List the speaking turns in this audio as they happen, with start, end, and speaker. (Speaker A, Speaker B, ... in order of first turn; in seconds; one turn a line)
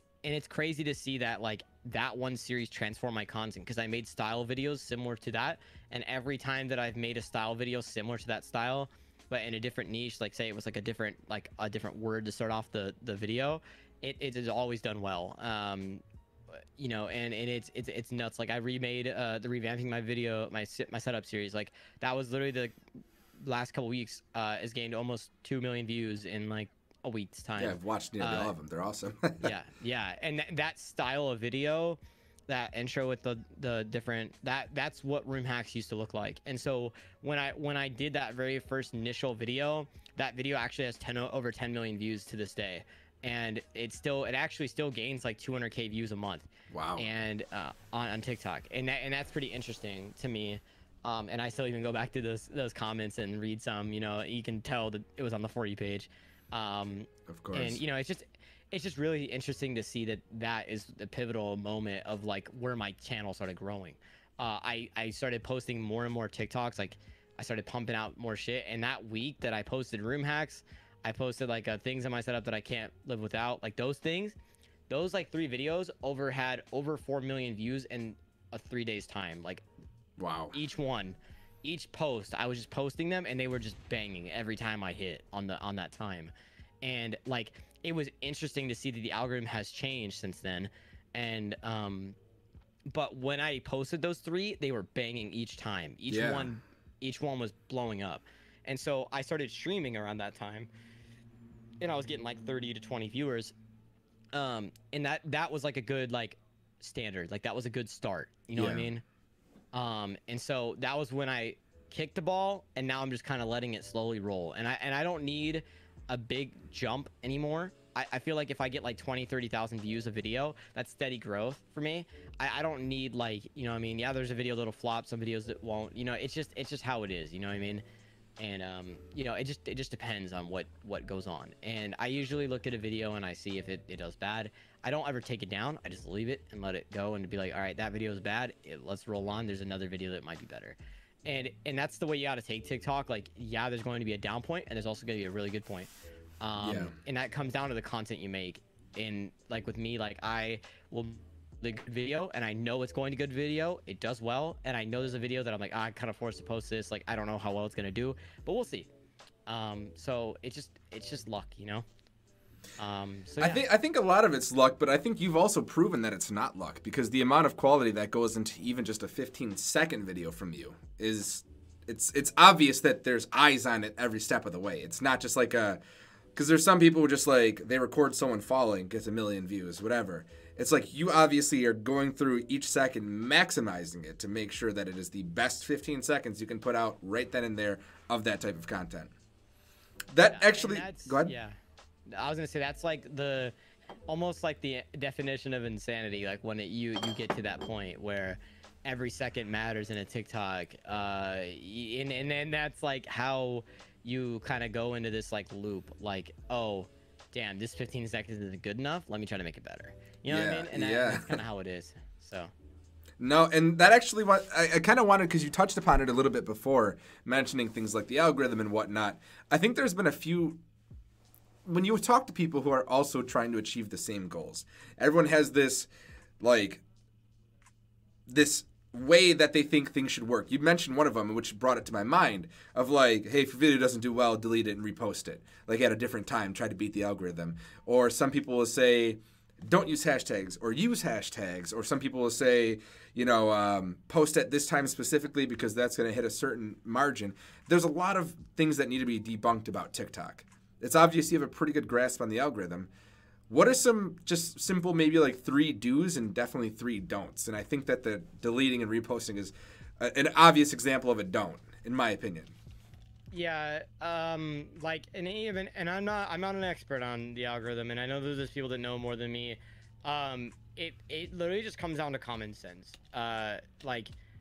Speaker A: 0.2-22.7
Speaker A: 23.4-28.5
Speaker B: 27.6-29.5
Speaker A: 29.4-74.3
Speaker B: 46.7-47.1
Speaker B: 57.3-57.8
Speaker A: 74.9-79.6
Speaker B: 80.2-80.5
Speaker A: 80.5-92.2
Speaker A: 92.9-100.7
Speaker B: 96.1-96.5
Speaker A: 101.8-103.5
Speaker A: 104.3-109.0
Speaker B: 108.5-108.9
Speaker A: 109.7-127.8
Speaker A: 128.4-145.9
Speaker A: 146.4-158.9
Speaker B: 146.6-146.9
Speaker A: 159.5-161.8
Speaker A: 162.8-163.7
Speaker B: 163.4-175.8
Speaker B: 176.3-189.1
Speaker B: 190.1-191.3
Speaker A: 190.2-193.5
Speaker A: 194.1-212.5
Speaker B: 210.3-211.4
Speaker B: 213.2-220.6
Speaker B: 221.7-225.9
Speaker B: 226.4-226.8
Speaker B: 228.3-252.9
Speaker B: 253.5-262.5
Speaker A: 263.3-274.1